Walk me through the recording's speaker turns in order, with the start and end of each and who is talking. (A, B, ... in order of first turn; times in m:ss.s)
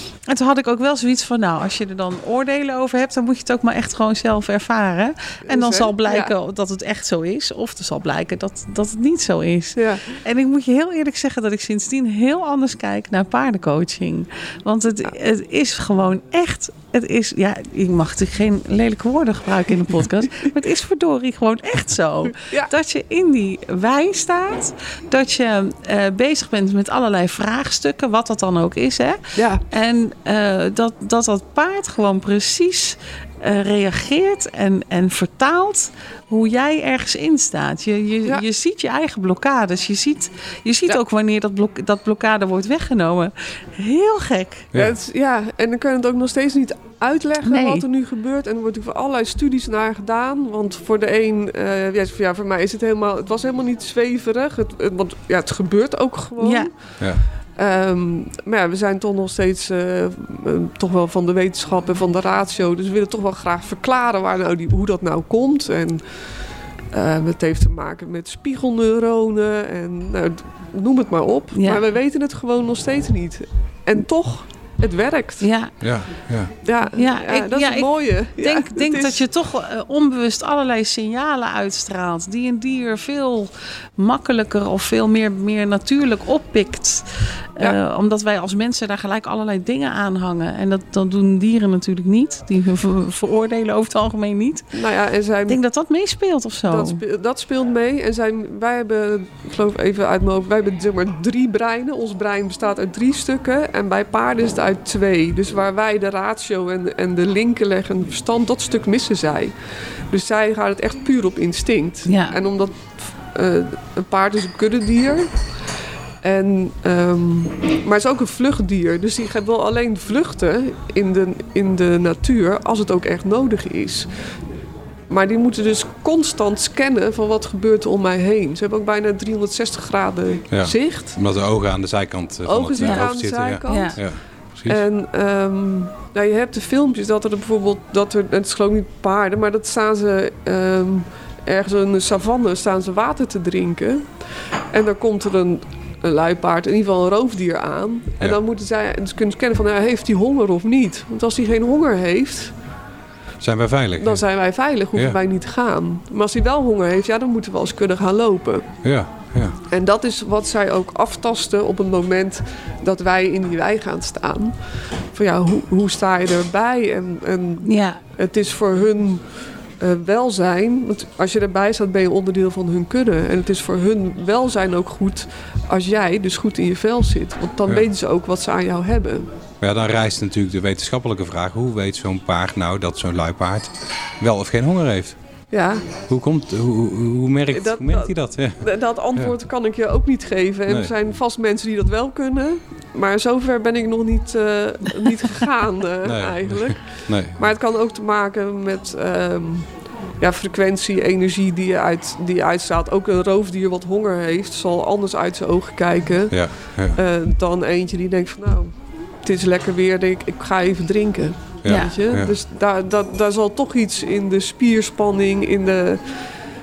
0:00.3-0:44.7 A
0:05.5-0:06.3 B
0:09.8-0:10.2 B
0:22.3-0:22.7 B
0:29.4-0:29.6 B
0:44.8-0:57.0 B
0:47.4-0:47.8 A
0:56.4-0:56.7 A
0:57.6-1:06.3 B
1:06.9-1:15.5 B
1:11.5-1:11.8 A
1:15.4-1:15.7 A
1:15.8-1:16.5 C
1:16.6-1:19.2 B
1:16.9-1:34.7 A
1:34.7-1:35.6 B
1:35.5-1:37.0 A
1:36.7-1:49.5 B
1:50.1-1:55.4 B
1:52.1-1:52.4 A
1:56.2-2:04.1 B
2:05.1-2:11.2 B
2:10.5-2:14.8 C
2:12.4-2:24.1 B
2:12.8-2:13.1 A
2:13.6-2:14.0 A
2:24.7-2:32.5 B
2:33.4-2:34.2 C
2:34.0-2:38.8 B
2:38.8-2:39.6 C
2:39.7-2:59.3 B
2:47.6-2:48.0 A
2:59.6-3:05.2 C
3:05.5-3:05.9 B
3:06.1-3:09.4 C
3:07.5-3:19.7 B
3:10.7-3:10.9 C
3:16.0-3:17.4 C
3:20.2-3:36.2 B
3:26.3-3:27.0 C
3:31.6-3:32.3 C
3:31.7-3:32.0 A